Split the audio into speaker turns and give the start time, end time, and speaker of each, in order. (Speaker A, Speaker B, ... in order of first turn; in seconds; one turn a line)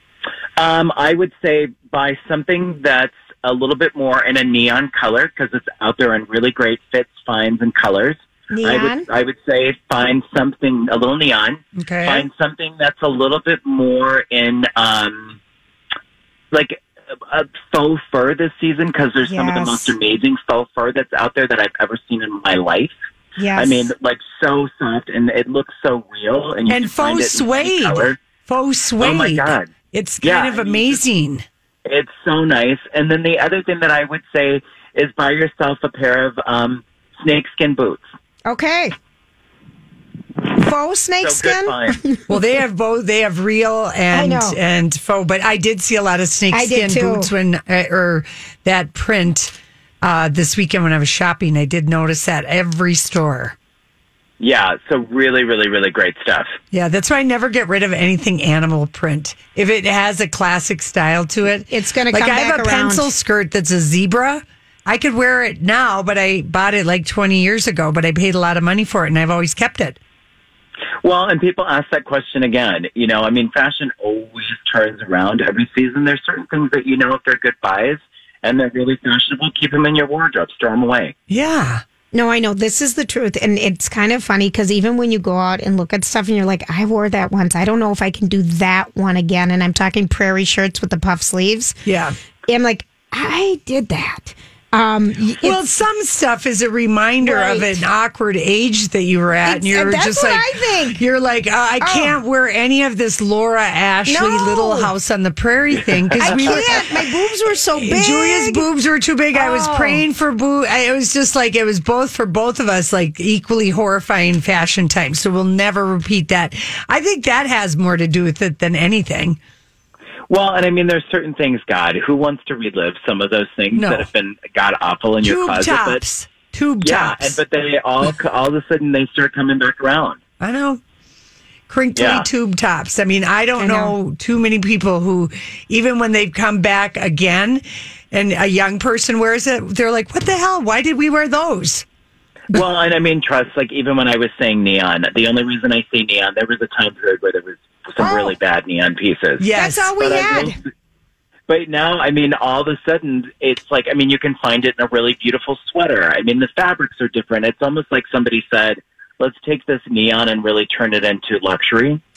Speaker A: 0.6-15.4
Speaker B: 8.5-9.0
Speaker C: 11.8-12.3
Speaker A: 16.5-22.9
Speaker B: 19.2-19.9
Speaker B: 23.4-23.9
Speaker A: 23.6-28.2
Speaker C: 26.7-31.4
Speaker A: 29.0-29.7
Speaker A: 30.2-31.0
Speaker A: 31.9-38.0
Speaker B: 38.5-38.9
Speaker B: 40.5-42.3
Speaker A: 41.2-42.0
Speaker C: 42.3-53.5
Speaker B: 44.1-44.6
Speaker B: 46.5-47.3
Speaker A: 54.4-56.5
Speaker C: 56.7-70.0
Speaker B: 61.7-63.1
Speaker A: 71.0-81.1
Speaker C: 81.3-81.8
Speaker B: 82.1-91.8
Speaker C: 91.8-92.1
Speaker B: 92.5-95.6
Speaker C: 95.4-107.0
Speaker B: 97.2-97.8
Speaker B: 99.4-101.0
Speaker B: 101.8-102.2
Speaker B: 104.1-104.9
Speaker B: 106.2-108.6
Speaker C: 107.8-119.4
Speaker B: 109.3-110.0
Speaker A: 120.3-126.0
Speaker C: 123.7-124.1
Speaker C: 125.2-127.4
Speaker A: 126.8-130.2
Speaker C: 130.4-130.8
Speaker C: 131.7-141.8
Speaker A: 131.9-132.3
Speaker B: 133.6-133.9
Speaker A: 142.5-150.6
Speaker B: 148.0-148.3
Speaker C: 149.4-149.9
Speaker B: 149.5-150.6
Speaker A: 151.5-162.0